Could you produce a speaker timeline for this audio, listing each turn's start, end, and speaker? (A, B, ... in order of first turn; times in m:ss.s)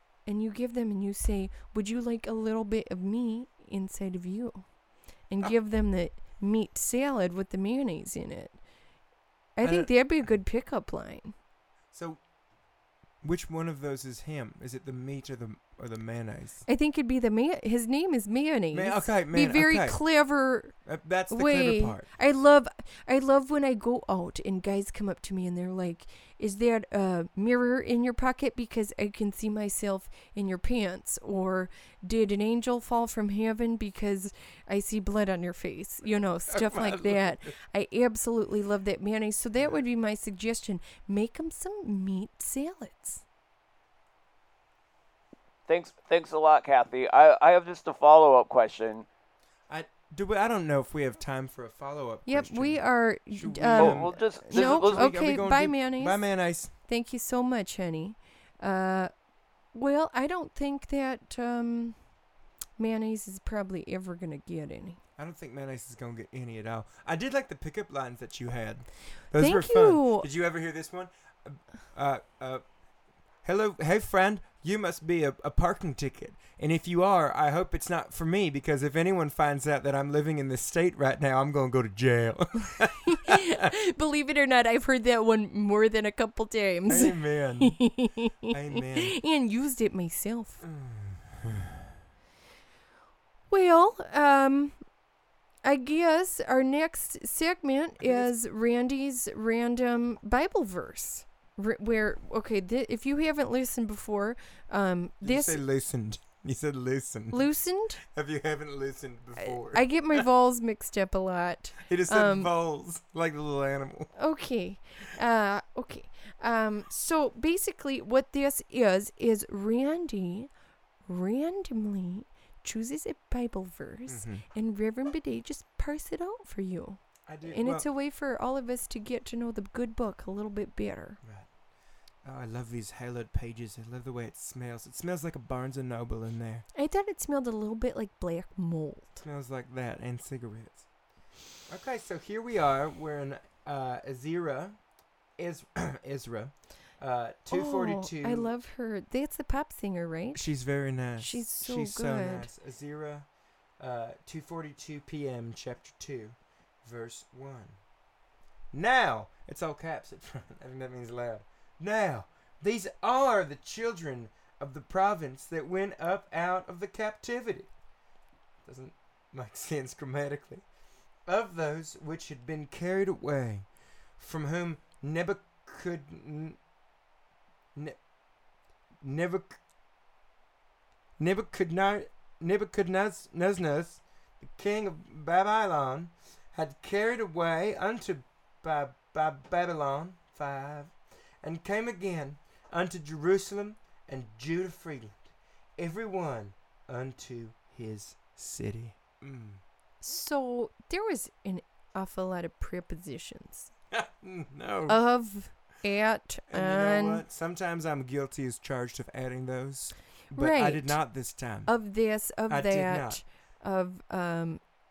0:00.3-0:04.7 A
0:05.3-0:08.6 A
0:09.6-0:11.3 A
0:09.6-0:09.9 B
0:11.9-0:12.2 B
0:13.2-0:16.6 B
0:16.7-0:20.8 A
0:18.7-0:20.0 B
0:20.9-0:22.1 B
0:21.3-0:43.2 A
0:36.5-0:37.5 B
0:45.7-0:49.1 C
0:49.7-0:56.7 B
0:52.3-0:56.2 A
0:53.8-0:55.1 C
0:56.8-0:59.1 A
0:59.7-1:02.0 A
1:02.8-1:05.0 A
1:05.2-1:12.6 B
1:09.3-1:10.3 A
1:13.4-1:23.7 B
1:23.0-1:30.6 A
1:26.9-1:27.8 B
1:28.5-1:29.2 B
1:30.6-1:31.9 B
1:33.5-1:34.8 A
1:35.6-1:45.6 A
1:38.0-1:38.3 B
1:45.2-1:47.5 B
1:47.3-1:48.0 A
1:48.0-1:50.2 B
1:49.4-1:52.5 A
1:51.8-1:54.1 B
1:54.2-2:00.5 A
2:01.1-2:11.2 A
2:04.1-2:04.4 B
2:07.3-2:07.9 B
2:11.2-2:11.5 B
2:12.2-2:16.7 B
2:16.8-2:19.2 A
2:19.2-2:20.9 B
2:21.7-2:24.8 B
2:25.4-2:28.5 B
2:27.5-2:30.5 A
2:30.3-2:33.3 B
2:31.2-2:32.5 A
2:33.8-2:37.8 B
2:38.7-2:47.7 B
2:48.6-2:50.6 B
2:51.3-2:53.7 B
2:54.2-2:56.6 B
2:59.0-2:59.6 B
3:01.2-3:19.6 B
3:20.0-3:23.7 A
3:23.9-3:25.0 B
3:24.9-3:27.2 A
3:26.5-3:31.7 B
3:30.3-3:31.0 A
3:31.7-3:34.6 A
3:32.5-3:33.2 B